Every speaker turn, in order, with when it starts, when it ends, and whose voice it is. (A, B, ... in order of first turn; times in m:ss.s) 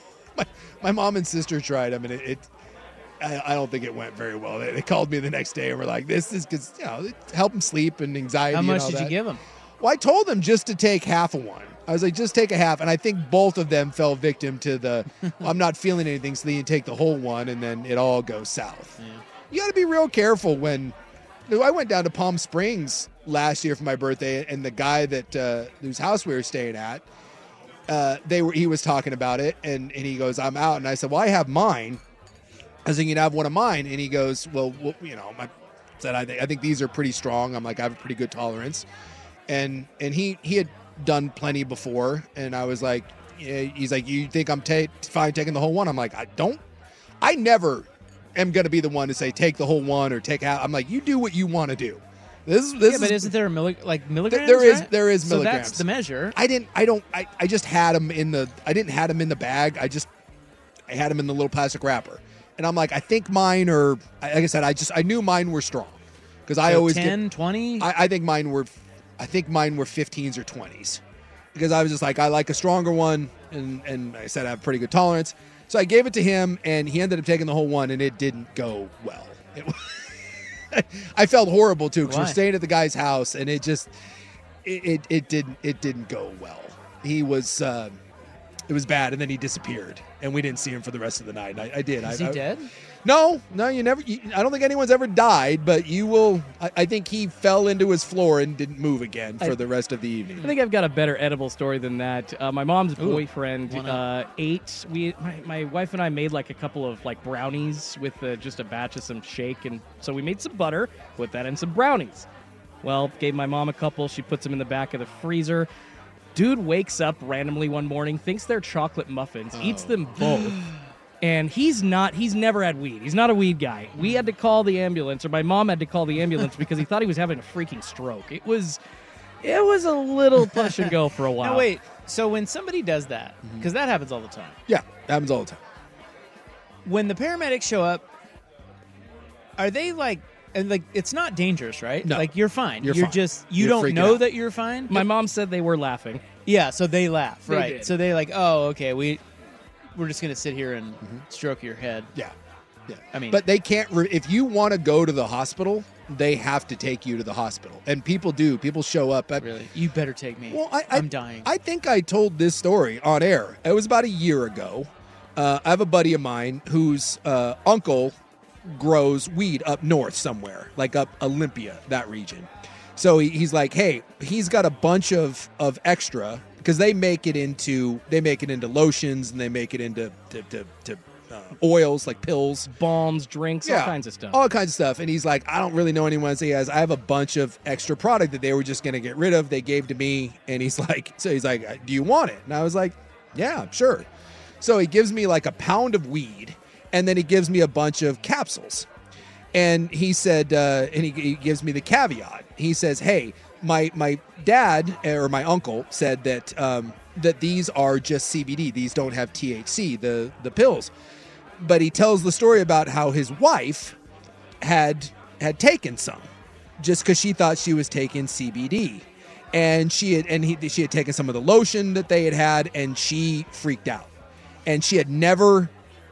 0:00.4-0:02.5 A
0:03.2-0:09.2 A
0:08.5-0:09.4 B
0:09.8-0:19.0 A
0:19.0-0:19.2 B
0:19.5-0:21.0 A
0:21.5-0:27.0 A
0:27.9-0:32.0 A
0:32.8-0:38.9 A
0:39.5-0:46.6 A
0:47.2-0:53.3 A
0:52.8-0:56.4 B
0:54.3-0:55.8 A
0:56.4-1:00.1 A
1:00.9-1:07.2 A
1:06.6-1:07.9 B
1:07.8-1:11.0 A
1:11.5-1:20.1 A
1:20.7-1:23.9 A
1:22.0-1:22.4 B
1:24.6-1:28.0 A
1:28.7-1:32.4 A
1:32.0-1:32.7 B
1:33.0-1:40.5 A
1:40.4-1:52.3 C
1:43.0-1:44.0 B
1:52.8-1:55.7 C
1:56.3-2:00.6 C
1:59.5-2:00.2 A
2:01.2-2:08.8 C
2:09.4-2:11.7 C
2:11.4-2:14.6 B
2:14.7-2:15.6 A
2:16.8-2:18.1 B
2:19.6-2:25.1 B
2:22.8-2:24.2 A
2:24.9-2:26.2 C
2:26.5-2:29.2 B
2:27.5-2:27.9 C
2:30.0-2:32.1 B
2:32.9-2:39.5 A
2:33.1-2:33.4 B
2:39.4-2:41.5 B
2:40.5-3:02.7 A
3:02.7-3:04.4 C
3:03.6-3:14.1 A
3:14.6-3:18.9 A
3:19.5-3:30.9 A
3:31.6-3:34.0 A
3:34.6-3:44.1 A
3:44.7-3:45.7 A